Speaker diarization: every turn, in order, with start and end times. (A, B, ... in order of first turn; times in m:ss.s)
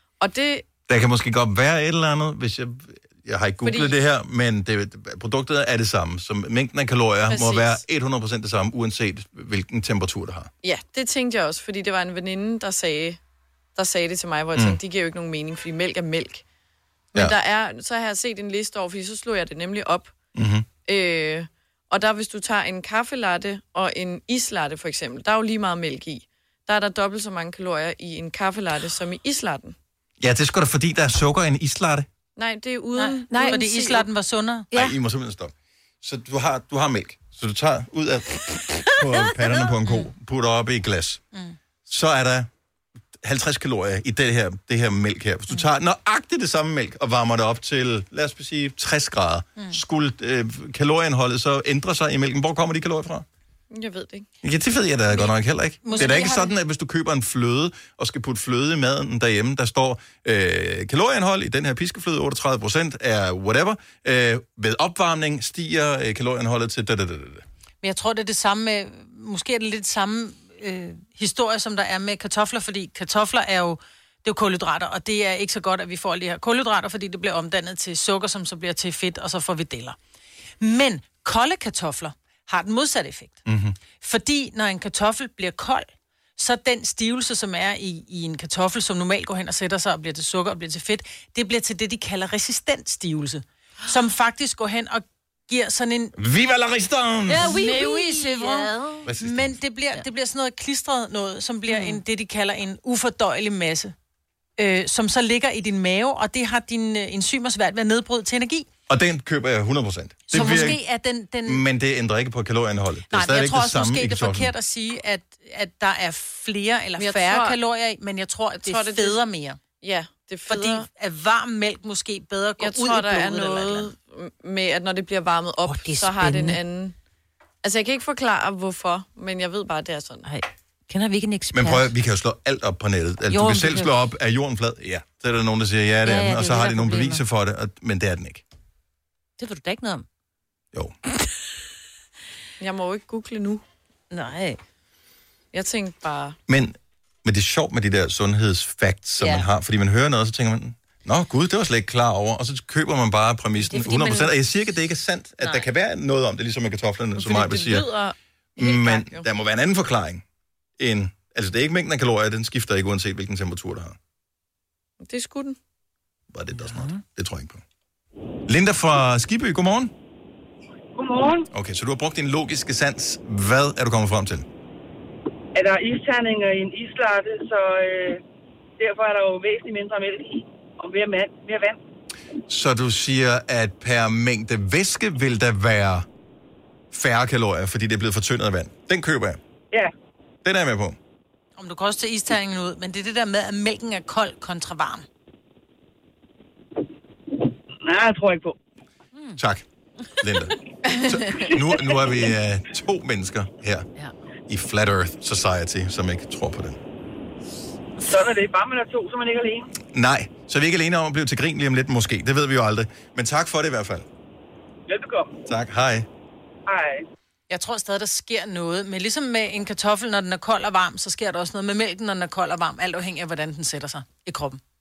0:00.2-0:00.7 A
0:00.9-0:10.5 B
0:03.6-0:04.0 A
0:07.3-0:07.8 A
0:10.6-0:13.2 A
0:13.8-0:16.4 A
0:17.2-0:20.2 A
0:20.4-0:20.7 B
0:20.8-0:29.8 A
0:30.2-0:32.1 B
0:32.4-0:34.0 A
0:33.0-0:34.7 C
0:33.3-0:33.6 D
0:34.7-0:35.0 D
0:34.7-0:41.2 B
0:41.9-0:42.5 B
0:43.2-0:53.3 B
0:53.7-0:54.3 A
0:54.4-1:07.4 B
0:55.8-0:56.5 C
1:07.8-1:20.0 C
1:20.6-1:23.4 C
1:23.5-1:23.8 B
1:24.0-1:36.1 C
1:36.2-1:37.5 B
1:37.3-1:39.1 D
1:37.3-1:43.9 C
1:39.0-1:39.6 B
1:41.7-1:42.0 D
1:44.6-1:48.7 C
1:48.9-1:50.8 B
1:50.3-1:51.6 C
1:51.4-1:54.5 B
1:53.1-1:59.6 C
1:57.0-1:57.6 A
1:58.6-1:59.2 A
1:59.8-2:00.9 A
2:00.5-2:03.9 C
2:02.6-2:07.0 A
2:05.6-2:06.6 D
2:07.6-2:10.3 A
2:10.2-2:11.9 D
2:11.5-2:18.4 B
2:13.3-2:14.0 D
2:16.0-2:17.2 D
2:19.4-2:20.1 D
2:22.6-2:23.6 A
2:24.1-2:24.6 D
2:25.5-2:26.4 A
2:26.5-2:37.9 B
2:29.2-2:29.5 D
2:33.6-2:34.3 D
2:35.4-2:35.7 D
2:37.2-2:39.3 A
2:38.6-2:40.2 B
2:40.8-2:44.0 B
2:45.0-2:45.6 A
2:46.3-2:47.6 B
2:48.5-2:49.9 B
2:51.0-2:51.5 E
2:51.5-2:54.5 B
2:55.6-2:58.2 E
2:58.8-3:01.8 E
3:02.5-3:06.1 B
3:06.9-3:09.4 B
3:10.4-3:11.0 B
3:11.6-3:15.1 C
3:17.8-3:18.6 E
3:19.4-3:19.6 B
3:20.2-3:23.9 B
3:20.9-3:21.5 A
3:24.5-3:26.8 B
3:28.0-3:29.7 E
3:29.9-3:34.1 B
3:34.9-3:35.3 E
3:35.5-3:36.1 B
3:36.7-3:37.0 E
3:37.5-3:44.6 C